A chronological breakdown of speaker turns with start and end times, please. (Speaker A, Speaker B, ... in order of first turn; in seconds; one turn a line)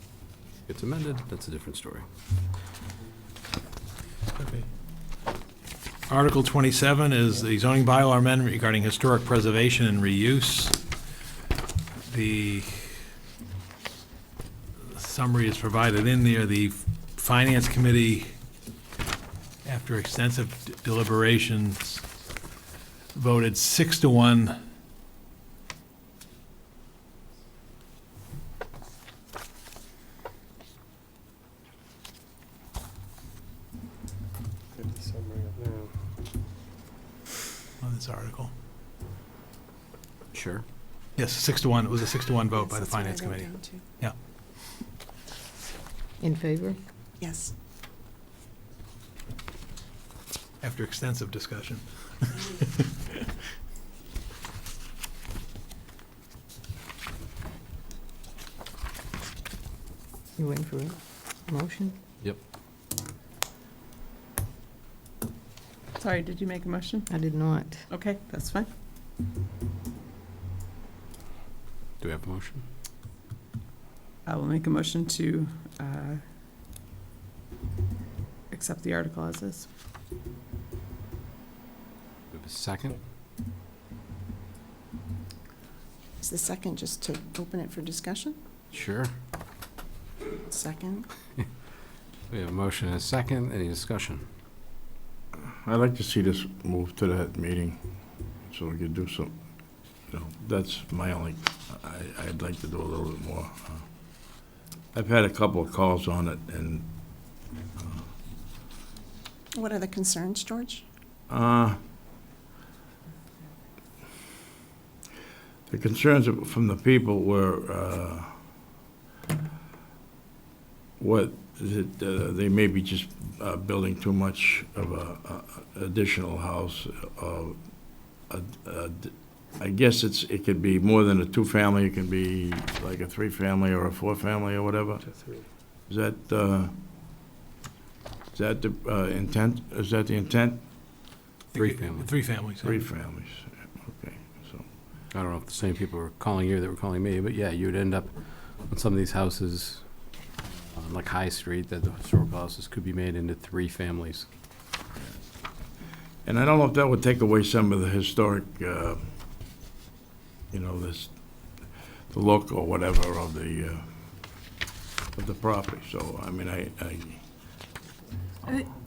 Speaker A: 0.7-2.0
Speaker B: 6.1-10.8
Speaker B: 12.1-13.1
Speaker B: 14.8-18.3
Speaker B: 19.6-22.0
Speaker B: 23.1-24.6
Speaker B: 37.8-38.5
Speaker A: 40.3-40.6
Speaker B: 41.2-44.1
Speaker C: 42.6-43.8
Speaker D: 46.2-46.8
Speaker C: 47.2-47.5
Speaker B: 50.6-53.2
Speaker D: 60.4-62.0
Speaker E: 66.0-67.2
Speaker D: 67.1-67.9
Speaker E: 67.9-68.7
Speaker A: 72.0-72.7
Speaker E: 74.2-76.2
Speaker E: 78.5-79.7
Speaker A: 82.3-83.0
Speaker C: 86.2-88.4
Speaker A: 88.7-89.1
Speaker C: 90.5-91.1
Speaker A: 92.3-94.2
Speaker F: 95.4-97.8
Speaker F: 98.4-99.3
Speaker F: 100.1-103.8
Speaker F: 104.9-108.0
Speaker C: 109.5-110.8
Speaker F: 111.3-111.8
Speaker F: 115.7-118.3
Speaker F: 121.0-135.2
Speaker F: 135.8-136.7
Speaker F: 138.3-140.7
Speaker B: 141.5-142.8
Speaker A: 141.5-142.1
Speaker F: 142.6-144.7
Speaker A: 145.1-149.8
Speaker A: 150.7-154.3
Speaker F: 156.2-159.0
Speaker F: 160.5-163.9
Speaker F: 165.1-167.2